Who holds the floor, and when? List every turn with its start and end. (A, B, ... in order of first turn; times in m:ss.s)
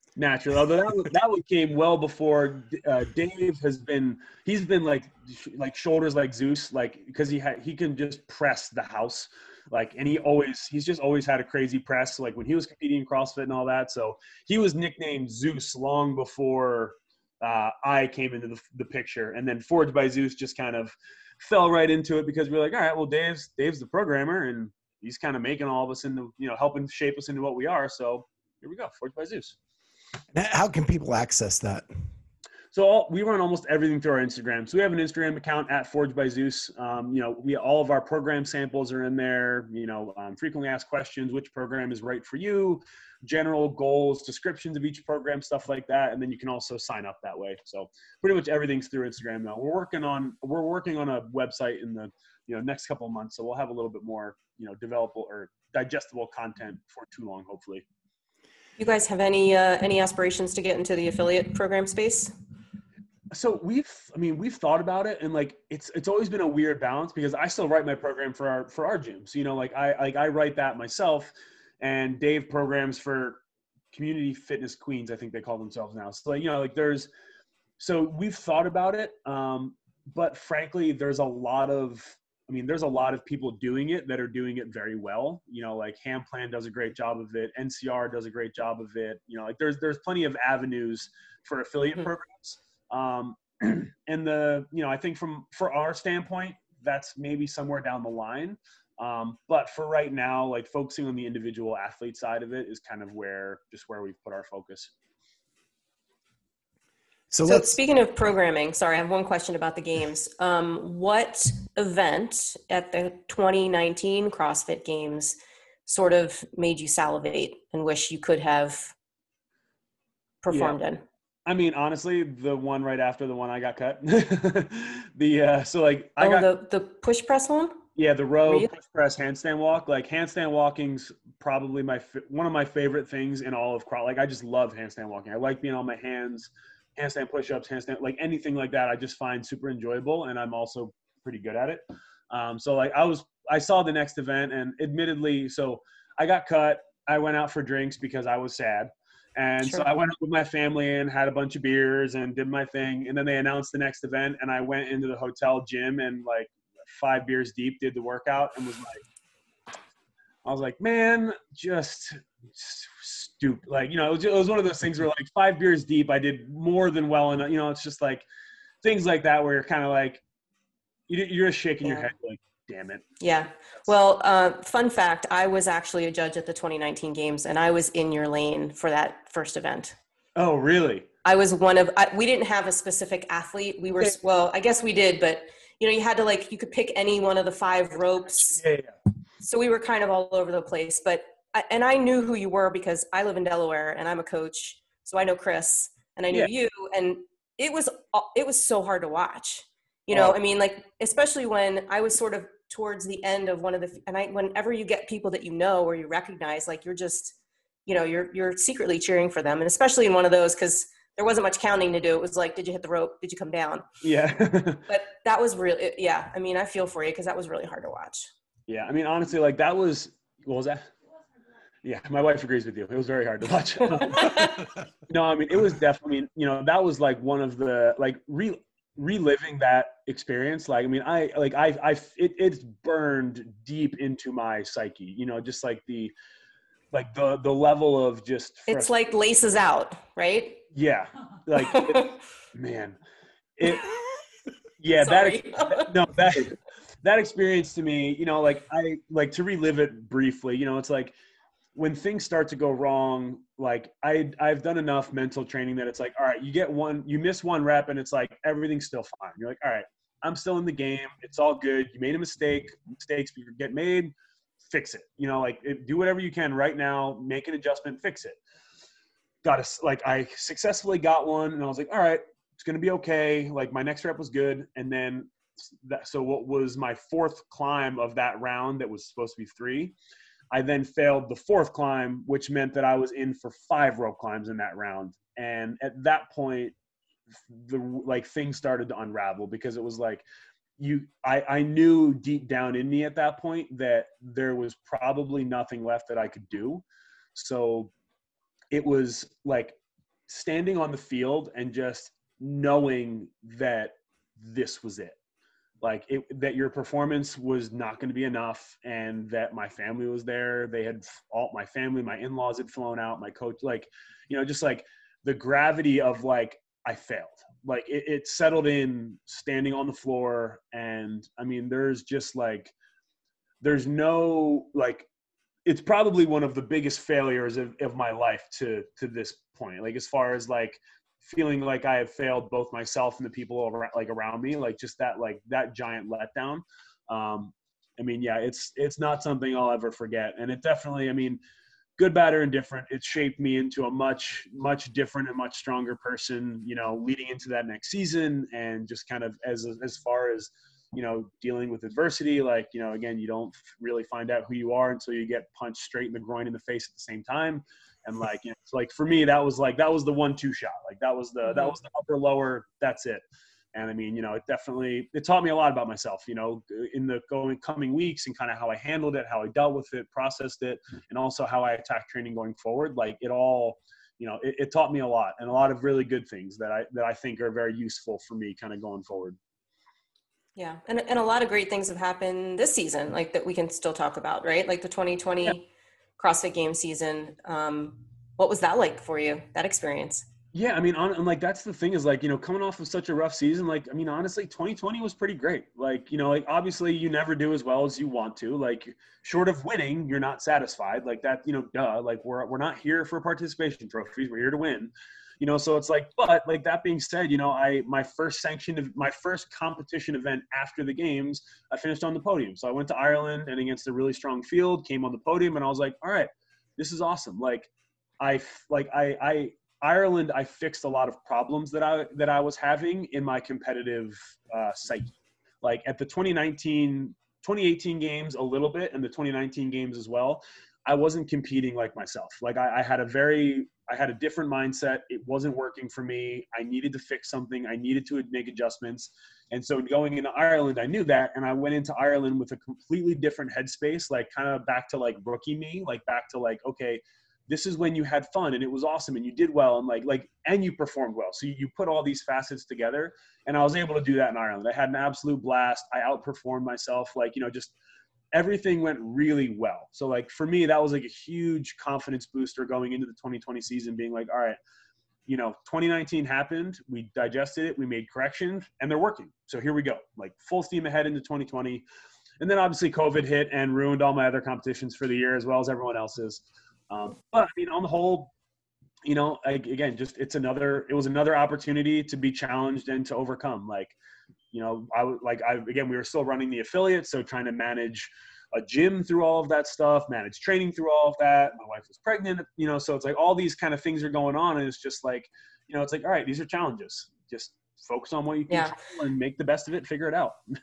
0:00.2-0:29.6 A
0:30.3-0:31.9 B
0:32.7-0:57.8 A
0:58.8-1:02.3 C
1:03.3-1:13.4 A
1:13.9-1:17.1 A
1:17.8-1:44.9 A
1:47.3-1:47.8 B
1:47.5-1:58.9 C
2:00.4-2:01.0 C
2:00.5-2:00.8 A
2:01.5-2:06.5 A
2:06.2-2:07.8 C
2:08.0-2:39.0 A
2:40.4-2:48.2 A
2:48.8-2:50.2 A
2:51.1-2:53.0 A
2:53.2-3:00.0 C
3:00.4-3:01.1 A
3:01.2-3:08.6 C
3:08.6-3:09.0 A
3:09.4-3:27.4 C
3:27.9-3:33.9 C
3:34.0-3:34.9 A
3:34.9-3:38.3 C
3:38.7-3:40.9 A
3:41.8-3:56.1 A
3:56.9-3:58.9 A
3:58.7-4:00.6 C
4:00.7-4:03.0 A
4:01.7-4:02.0 C
4:03.6-4:03.8 A
4:04.8-4:11.2 A
4:05.0-4:05.9 C
4:11.8-4:24.1 A
4:24.7-4:28.4 A
4:29.4-4:35.3 A
4:35.8-4:39.9 A
4:40.5-4:46.7 A
4:47.5-4:50.2 A
4:50.8-4:56.8 A
4:57.4-4:57.9 A
4:58.7-4:59.8 A
5:00.3-5:05.2 A
5:05.8-5:22.7 A
5:23.6-5:25.1 A
5:25.6-5:41.4 A
5:42.0-6:03.2 A
6:03.7-6:19.4 A
6:20.6-6:25.6 C
6:26.2-6:30.3 C
6:30.5-7:37.7 A
7:38.3-7:44.6 A
7:45.3-7:51.8 A
7:52.4-7:58.3 A
7:59.0-8:04.0 A
8:04.5-8:20.4 A